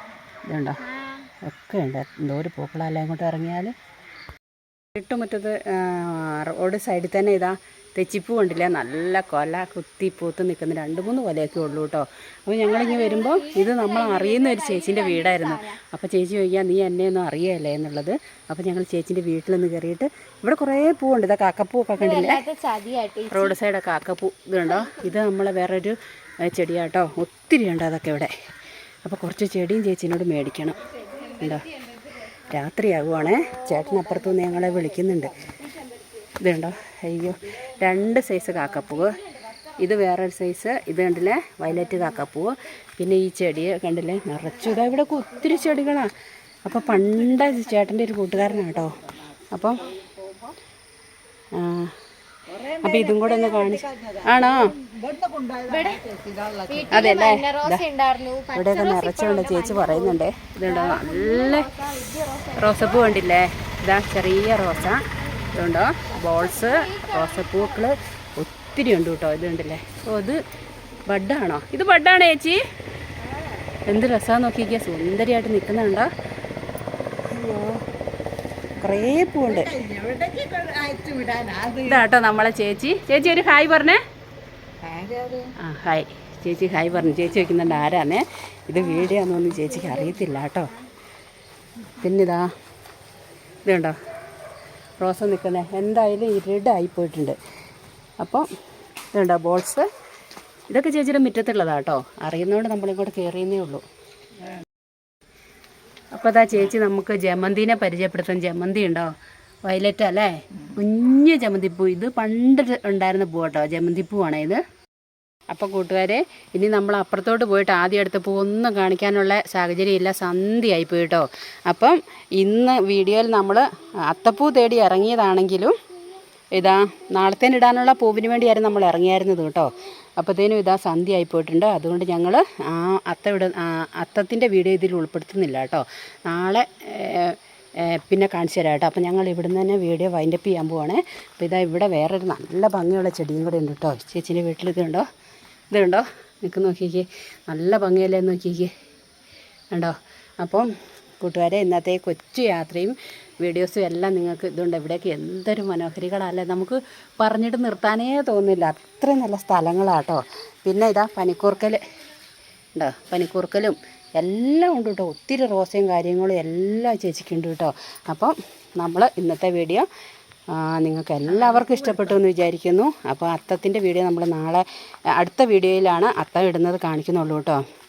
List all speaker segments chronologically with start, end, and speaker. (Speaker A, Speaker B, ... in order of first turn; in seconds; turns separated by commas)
Speaker A: 0.5-0.8, Speaker B: 0.9-1.3, Speaker A: 1.4-3.7, Speaker A: 5.0-22.4, Speaker B: 12.6-15.8, Speaker B: 21.9-23.6, Speaker A: 23.3-28.3, Speaker B: 24.7-24.9, Speaker A: 29.0-30.8, Speaker B: 31.1-32.0, Speaker A: 31.4-31.7, Speaker A: 32.5-35.4, Speaker A: 36.4-39.2, Speaker A: 39.8-46.1, Speaker A: 46.6-49.0, Speaker A: 49.5-49.9, Speaker A: 51.5-51.9, Speaker A: 52.5-54.7, Speaker B: 55.4-63.2, Speaker A: 56.9-57.8, Speaker A: 58.5-61.7, Speaker A: 62.6-70.4, Speaker B: 66.2-67.9, Speaker A: 71.1-72.6, Speaker A: 73.9-76.1, Speaker A: 77.3-77.8, Speaker A: 78.8-80.2, Speaker A: 81.5-84.0, Speaker A: 85.6-90.7, Speaker A: 91.9-92.5, Speaker A: 93.6-93.9, Speaker A: 95.0-97.4, Speaker A: 98.2-98.5, Speaker A: 99.1-99.8, Speaker A: 100.7-103.8, Speaker A: 106.1-109.1, Speaker A: 109.6-114.6, Speaker A: 115.5-125.7, Speaker A: 126.5-145.0, Speaker A: 145.7-148.7, Speaker A: 149.7-150.7, Speaker A: 151.2-161.8, Speaker A: 162.8-169.8, Speaker A: 170.5-174.6, Speaker A: 175.2-177.6